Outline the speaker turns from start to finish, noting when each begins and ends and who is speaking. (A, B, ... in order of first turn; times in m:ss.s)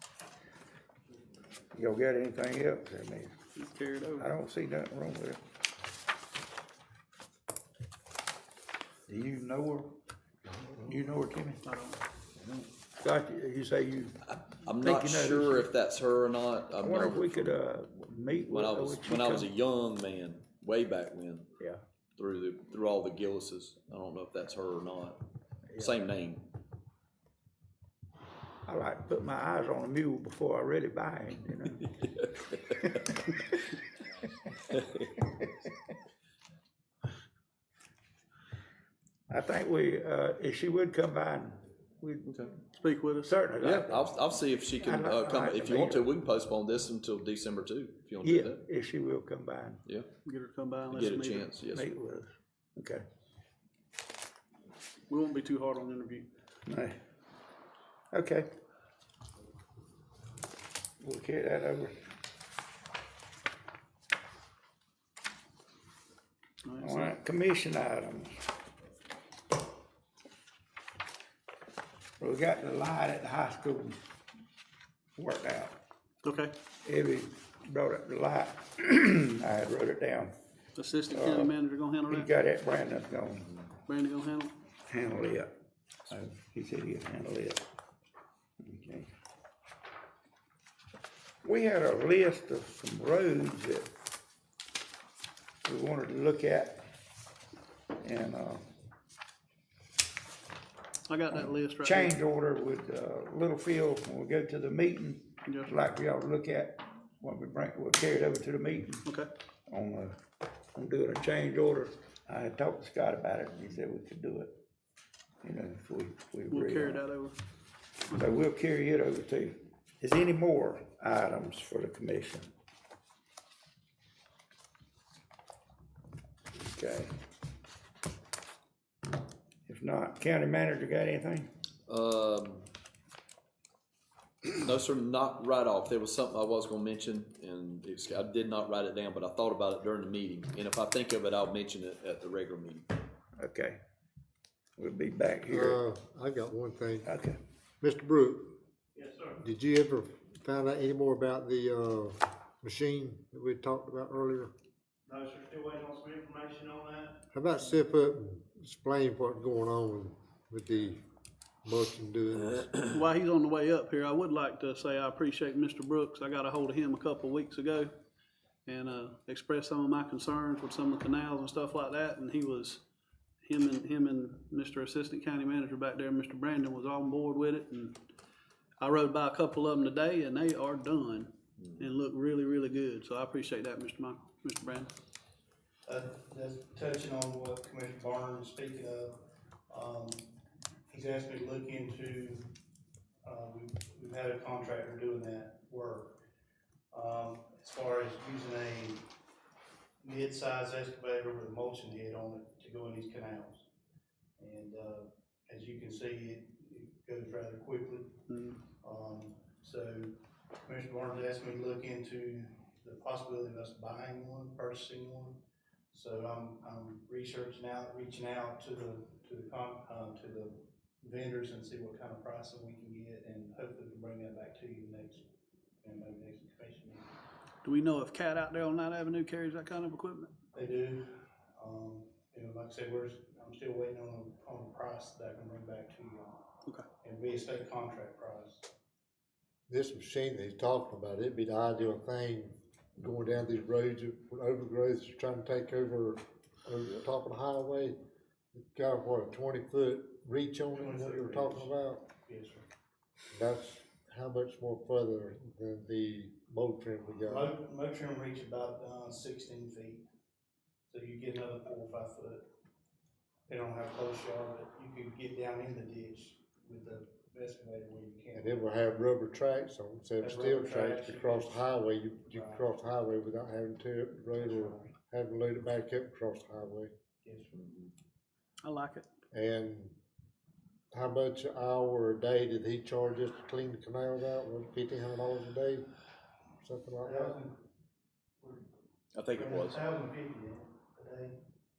0:01.7-0:03.3 A
0:03.6-0:04.3 B
0:04.2-0:05.4 A
0:09.1-0:09.9 A
0:10.5-0:11.6 A
0:11.6-0:12.0 B
0:12.4-0:15.7 A
0:14.2-0:17.6 C
0:16.8-0:19.5 A
0:18.5-0:21.5 C
0:22.2-0:25.2 C
0:25.7-0:26.0 A
0:25.8-0:26.5 C
0:28.6-0:32.0 A
0:32.7-0:33.6 A
0:34.7-0:35.1 C
0:39.3-0:42.4 A
0:42.8-0:43.3 B
0:43.2-0:44.1 A
0:43.6-0:48.6 C
0:44.7-0:46.1 A
0:48.2-0:49.8 A
0:49.8-0:50.1 C
0:50.2-0:51.5 B
0:50.9-0:51.9 C
0:51.7-0:53.0 A
0:55.1-0:56.3 B
0:56.7-0:57.0 A
0:58.1-0:58.5 A
1:01.0-1:01.9 A
1:06.6-1:07.1 B
1:06.8-1:08.3 A
1:12.2-1:14.0 A
1:15.2-1:15.8 A
1:16.2-1:16.5 B
1:16.8-1:20.3 A
1:20.8-1:22.3 B
1:21.1-1:21.5 A
1:22.1-1:23.6 A
1:23.9-1:24.5 B
1:24.9-1:25.5 A
1:26.1-1:27.6 A
1:28.6-1:29.1 A
1:31.4-1:33.9 A
1:35.6-1:36.8 A
1:38.0-1:38.6 A
1:41.1-1:42.1 B
1:41.3-1:49.0 A
1:49.7-1:50.2 A
1:50.7-1:54.6 A
1:55.4-1:57.0 A
1:56.5-1:57.3 B
1:58.1-2:02.5 A
2:06.6-2:07.1 A
2:09.7-2:11.5 A
2:11.9-2:12.7 C
2:14.4-2:22.9 C
2:23.4-2:23.8 A
2:24.8-2:25.8 A
2:25.5-2:27.1 D
2:27.0-2:27.4 A
2:27.8-2:28.6 D
2:29.0-2:29.3 E
2:29.4-2:34.5 D
2:35.1-2:37.0 E
2:37.3-2:41.0 D
2:41.6-2:42.8 D
2:42.9-2:47.9 B
2:48.7-2:52.8 B
2:53.4-2:57.9 B
2:58.8-3:04.9 B
3:05.8-3:10.3 E
3:10.9-3:12.4 E
3:13.2-3:16.2 E
3:16.9-3:19.0 E
3:20.0-3:23.6 E
3:24.4-3:30.1 E
3:30.6-3:35.4 E
3:35.9-3:45.2 E
3:45.8-3:47.0 E
3:47.6-3:50.3 B
3:50.5-3:56.5 E
3:57.0-3:58.7 E
3:59.7-4:07.9 D
4:08.5-4:12.1 D
4:10.7-4:12.6 E
4:13.3-4:17.5 D
4:17.2-4:20.0 E
4:20.9-4:22.4 E
4:23.5-4:28.8 E
4:28.3-4:36.9 D
4:30.2-4:31.7 E
4:32.3-4:32.7 E
4:34.3-4:34.9 E
4:37.2-4:37.9 E
4:38.6-4:39.0 B
4:39.3-4:40.0 D
4:40.9-4:45.8 D
4:46.6-4:47.4 D
4:47.0-4:47.6 E
4:48.4-4:48.7 E
4:49.1-4:49.8 C
4:49.3-4:51.4 E